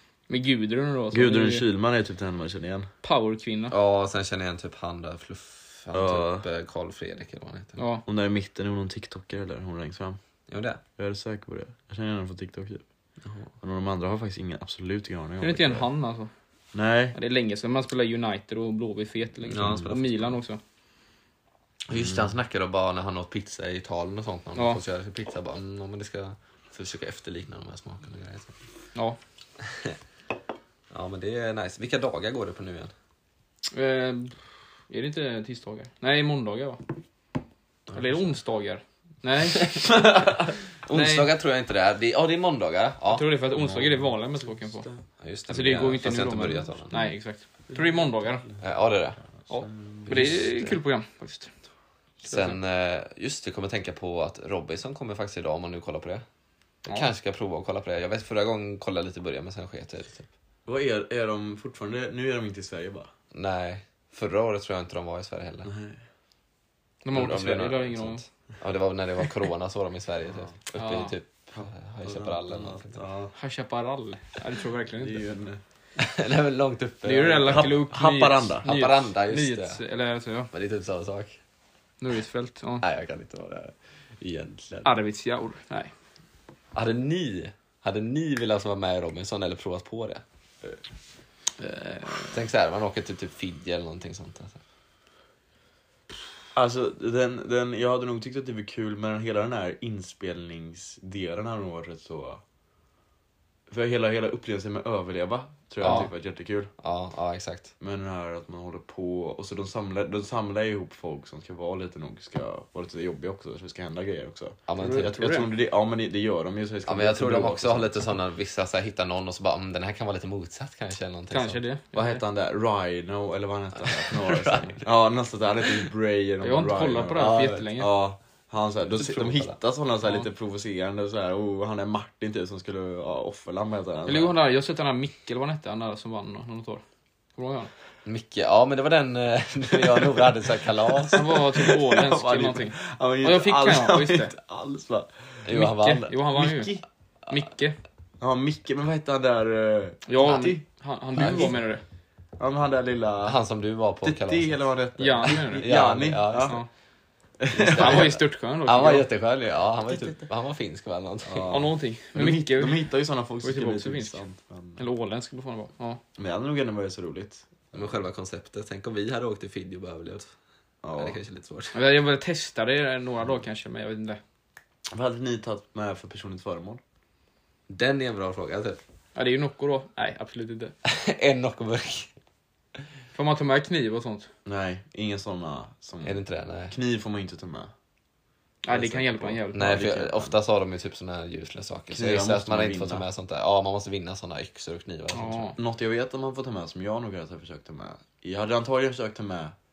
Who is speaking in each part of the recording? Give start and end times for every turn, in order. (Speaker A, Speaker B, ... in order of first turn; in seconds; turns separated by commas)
Speaker A: 0.3-1.6, Speaker B: 1.1-2.9, Speaker A: 3.0-3.8, Speaker C: 3.7-7.8, Speaker B: 5.9-6.5, Speaker A: 7.8-8.1, Speaker B: 8.1-10.2, Speaker C: 10.5-10.8, Speaker B: 11.0-12.8, Speaker C: 13.2-13.5, Speaker B: 13.6-15.9, Speaker A: 15.4-16.3, Speaker B: 16.7-17.1, Speaker A: 17.1-20.6, Speaker C: 19.5-20.3, Speaker B: 19.6-19.9, Speaker C: 21.9-28.6, Speaker B: 21.9-22.2, Speaker C: 29.6-30.0, Speaker C: 30.9-32.9, Speaker A: 33.7-36.9, Speaker A: 37.9-40.3, Speaker C: 39.5-43.3, Speaker A: 40.9-41.3, Speaker A: 43.1-44.9, Speaker B: 43.5-45.0, Speaker C: 45.2-46.9, Speaker A: 45.5-48.4, Speaker B: 47.7-48.6, Speaker C: 48.6-49.2, Speaker B: 49.5-50.6, Speaker A: 49.5-51.5, Speaker C: 50.1-50.8, Speaker C: 52.2-56.2, Speaker A: 52.3-52.6, Speaker C: 56.9-60.3, Speaker B: 60.6-63.1, Speaker C: 63.3-65.7, Speaker B: 65.6-66.0, Speaker A: 67.0-68.2, Speaker C: 67.1-73.1, Speaker A: 70.8-71.1, Speaker B: 71.5-73.3, Speaker A: 73.4-75.3, Speaker B: 75.0-75.6, Speaker C: 76.0-77.7, Speaker A: 77.0-80.5, Speaker B: 77.4-78.6, Speaker C: 78.6-79.8, Speaker C: 80.5-81.4, Speaker A: 82.0-82.8, Speaker C: 82.8-84.9, Speaker A: 84.8-85.9, Speaker C: 86.7-90.2, Speaker A: 91.6-92.4, Speaker C: 92.3-94.6, Speaker B: 96.5-102.4, Speaker B: 103.7-106.7, Speaker C: 105.8-106.1, Speaker A: 105.8-106.1, Speaker C: 106.8-107.7, Speaker B: 107.8-118.1, Speaker C: 114.7-115.2, Speaker A: 114.8-115.5, Speaker C: 116.9-121.6, Speaker A: 121.3-122.2, Speaker B: 121.9-134.3, Speaker C: 123.8-124.9, Speaker A: 126.4-127.9, Speaker C: 127.2-127.7, Speaker C: 128.9-129.6, Speaker A: 134.1-136.8, Speaker A: 137.4-137.7, Speaker C: 138.1-141.3, Speaker A: 141.1-144.3, Speaker B: 141.1-145.4, Speaker C: 145.4-146.1, Speaker A: 145.5-146.8, Speaker B: 146.3-146.8, Speaker A: 147.3-147.8, Speaker B: 148.2-150.6, Speaker A: 150.1-151.8, Speaker B: 151.2-151.6, Speaker B: 152.4-153.4, Speaker C: 153.2-154.6, Speaker B: 154.0-156.6, Speaker A: 155.0-155.7, Speaker C: 155.6-156.6, Speaker A: 156.3-156.7, Speaker B: 157.4-158.1, Speaker C: 157.5-161.6, Speaker A: 157.6-159.1, Speaker B: 159.9-160.3, Speaker B: 161.2-164.8, Speaker A: 161.5-162.9, Speaker A: 163.4-164.2, Speaker A: 164.8-166.0, Speaker B: 166.2-167.9, Speaker C: 167.7-170.3, Speaker B: 170.8-171.2, Speaker C: 170.9-171.8, Speaker A: 171.7-174.2, Speaker B: 174.9-176.8, Speaker C: 177.7-178.8, Speaker A: 179.1-180.7, Speaker C: 180.8-182.1, Speaker A: 183.1-184.3, Speaker B: 184.5-187.7, Speaker C: 186.0-186.8, Speaker A: 188.6-189.9, Speaker B: 188.7-190.3, Speaker C: 189.5-195.6, Speaker B: 191.9-193.1, Speaker A: 195.1-195.6, Speaker B: 195.6-199.5